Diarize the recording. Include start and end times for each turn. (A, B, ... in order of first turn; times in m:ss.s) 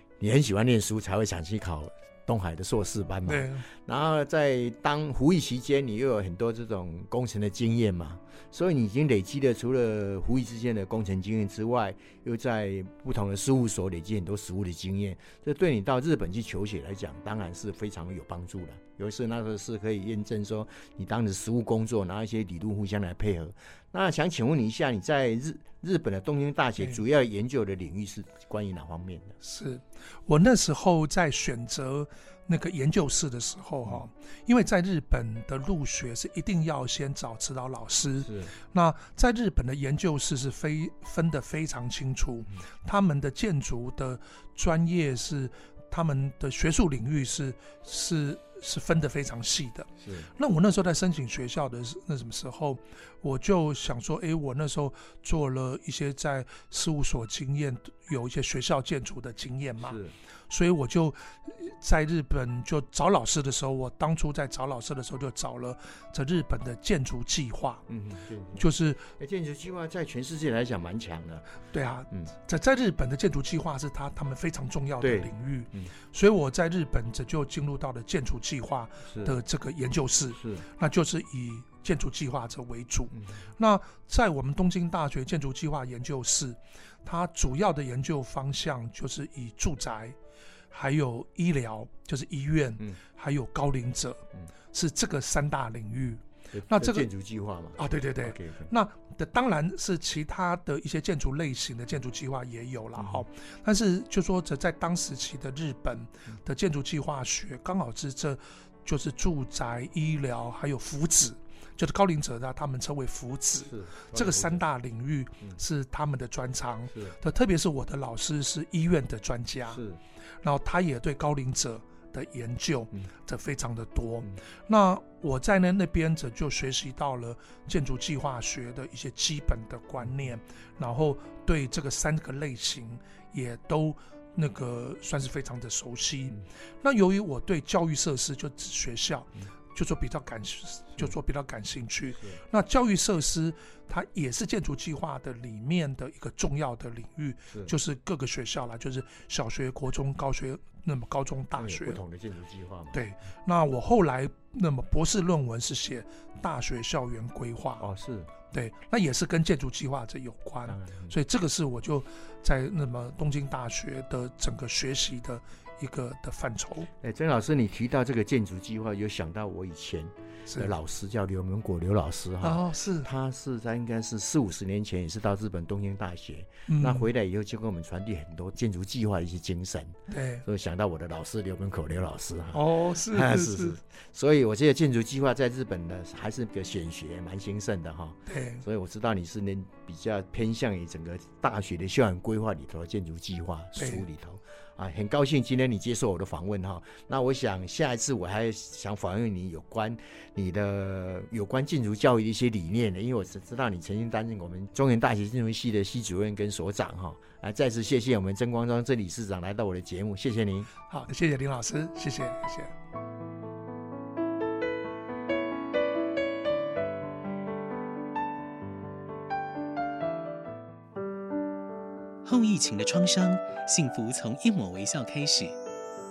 0:00.2-0:29.3 A
0:03.2-0:03.7 B
0:29.4-1:07.8 B
0:38.2-0:38.5 A
0:50.0-0:50.3 A
0:59.8-1:00.1 A
1:07.9-1:11.5 A
1:08.6-1:09.1 B
1:11.7-1:30.2 B
1:15.0-1:15.9 A
1:19.0-1:19.4 A
1:20.3-1:20.6 A
1:23.1-1:23.4 A
1:30.7-1:37.1 B
1:36.5-1:38.7 A
1:37.8-1:59.8 B
1:43.0-1:43.2 A
1:53.6-1:54.6 A
1:56.9-1:57.2 A
1:59.7-2:00.0 A
2:00.4-2:32.0 B
2:22.2-2:22.4 A
2:27.5-2:27.7 A
2:31.6-2:33.0 A
2:32.9-2:37.8 B
2:37.8-2:38.3 A
2:38.5-2:46.9 B
2:40.6-2:41.2 A
2:47.0-3:30.7 A
2:50.5-2:50.7 B
2:52.4-2:53.1 B
2:56.7-2:57.1 B
3:00.1-3:00.4 B
3:02.5-3:03.8 B
3:08.3-3:08.6 B
3:13.8-3:14.0 B
3:30.8-3:32.7 B
3:42.2-3:45.6 C